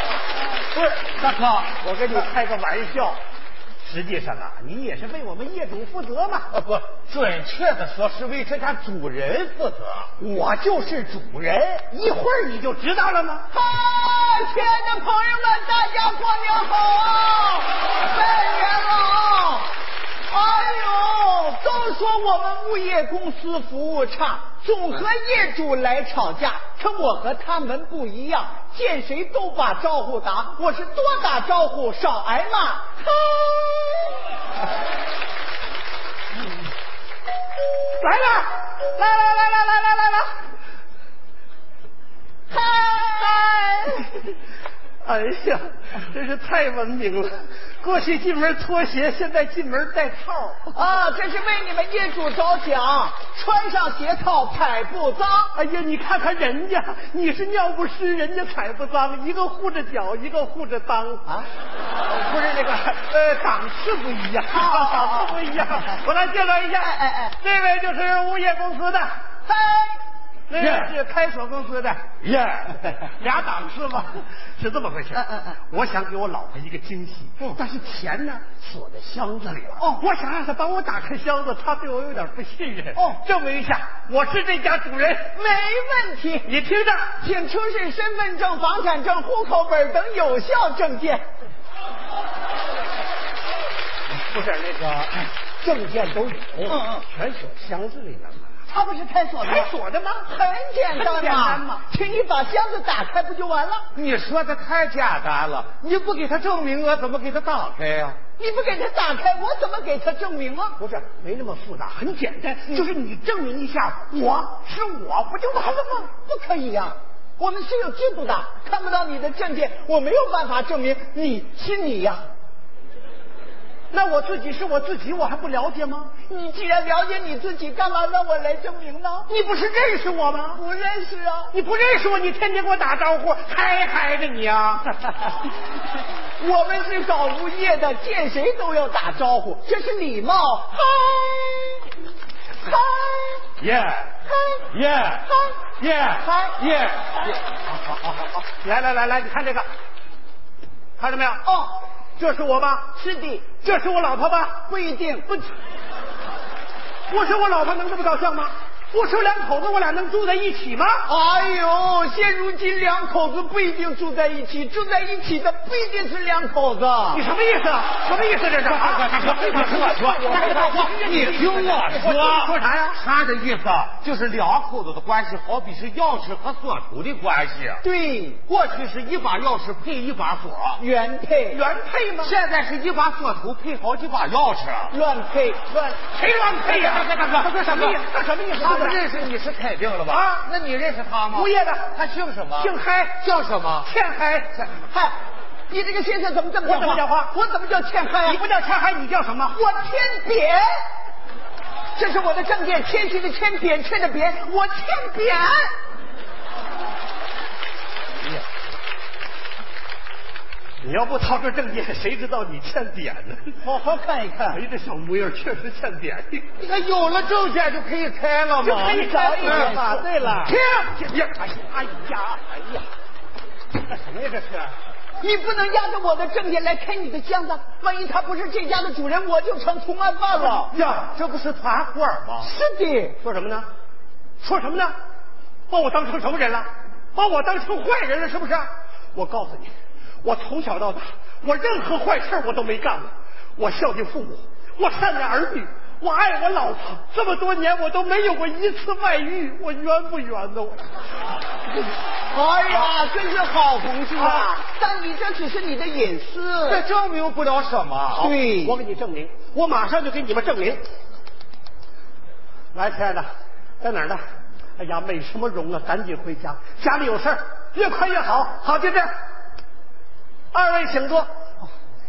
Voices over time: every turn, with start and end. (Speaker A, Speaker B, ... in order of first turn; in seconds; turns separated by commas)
Speaker A: 0.8-1.1, Speaker B: 1.0-2.2, Speaker A: 1.7-3.2, Speaker A: 3.8-6.5, Speaker B: 6.5-10.1, Speaker A: 10.2-13.5, Speaker C: 13.5-19.7, Speaker C: 20.3-34.2, Speaker A: 38.0-40.3, Speaker C: 42.5-44.1, Speaker A: 45.0-50.9, Speaker C: 50.7-55.5, Speaker A: 55.5-61.4, Speaker A: 62.1-69.2, Speaker C: 64.5-65.4, Speaker C: 66.8-67.3, Speaker C: 69.5-70.0, Speaker A: 70.5-72.0, Speaker B: 70.6-70.9, Speaker B: 72.2-72.9, Speaker A: 72.8-85.4, Speaker C: 75.2-75.5, Speaker C: 85.3-86.5, Speaker A: 86.4-87.2, Speaker C: 87.2-91.2, Speaker A: 94.1-98.5, Speaker C: 96.7-97.0, Speaker C: 98.7-99.7, Speaker A: 99.4-100.3, Speaker C: 100.2-103.8, Speaker A: 100.9-101.8, Speaker B: 103.9-108.2, Speaker C: 108.4-110.8, Speaker A: 110.8-116.1, Speaker C: 116.1-122.3, Speaker A: 123.9-126.2, Speaker C: 126.2-129.3, Speaker A: 129.3-130.6, Speaker C: 130.5-131.5, Speaker A: 131.5-135.4, Speaker C: 136.4-141.9, Speaker C: 142.6-143.4, Speaker B: 143.6-144.2, Speaker C: 144.3-144.6, Speaker B: 144.7-147.4, Speaker C: 146.2-146.5, Speaker A: 147.9-149.7, Speaker A: 151.0-151.4, Speaker C: 151.4-151.8, Speaker A: 152.2-152.9, Speaker C: 152.9-153.6, Speaker A: 153.6-154.7, Speaker C: 154.7-155.3, Speaker A: 157.1-161.0, Speaker C: 161.1-167.2, Speaker A: 167.1-173.0, Speaker B: 168.7-177.8, Speaker C: 169.9-170.8, Speaker C: 177.8-178.4, Speaker B: 178.4-180.8, Speaker C: 180.8-181.6, Speaker A: 181.5-182.3, Speaker B: 182.2-184.9, Speaker C: 184.9-185.8, Speaker B: 186.1-188.0, Speaker A: 186.2-189.1, Speaker B: 188.6-193.9, Speaker A: 190.1-190.4, Speaker A: 191.3-191.9, Speaker A: 192.5-193.2, Speaker A: 193.8-194.7, Speaker C: 194.8-195.2, Speaker C: 195.7-198.4, Speaker A: 196.6-197.3, Speaker A: 198.2-199.6, Speaker C: 199.5-200.6, Speaker C: 201.9-205.7, Speaker A: 210.8-213.6, Speaker C: 213.6-214.6, Speaker A: 214.5-216.6, Speaker B: 216.6-219.8, Speaker A: 218.6-222.8, Speaker C: 218.9-220.8, Speaker A: 223.8-224.7, Speaker C: 225.2-230.7, Speaker B: 230.4-232.5, Speaker C: 232.4-233.2, Speaker A: 233.1-233.7, Speaker A: 234.4-234.9, Speaker A: 235.7-239.7, Speaker A: 240.2-250.9, Speaker C: 252.3-256.8, Speaker A: 254.2-254.5, Speaker B: 256.6-258.3, Speaker C: 258.2-258.8, Speaker A: 258.2-260.8, Speaker A: 262.7-263.3, Speaker A: 263.8-264.2, Speaker A: 264.8-269.1, Speaker A: 270.5-271.3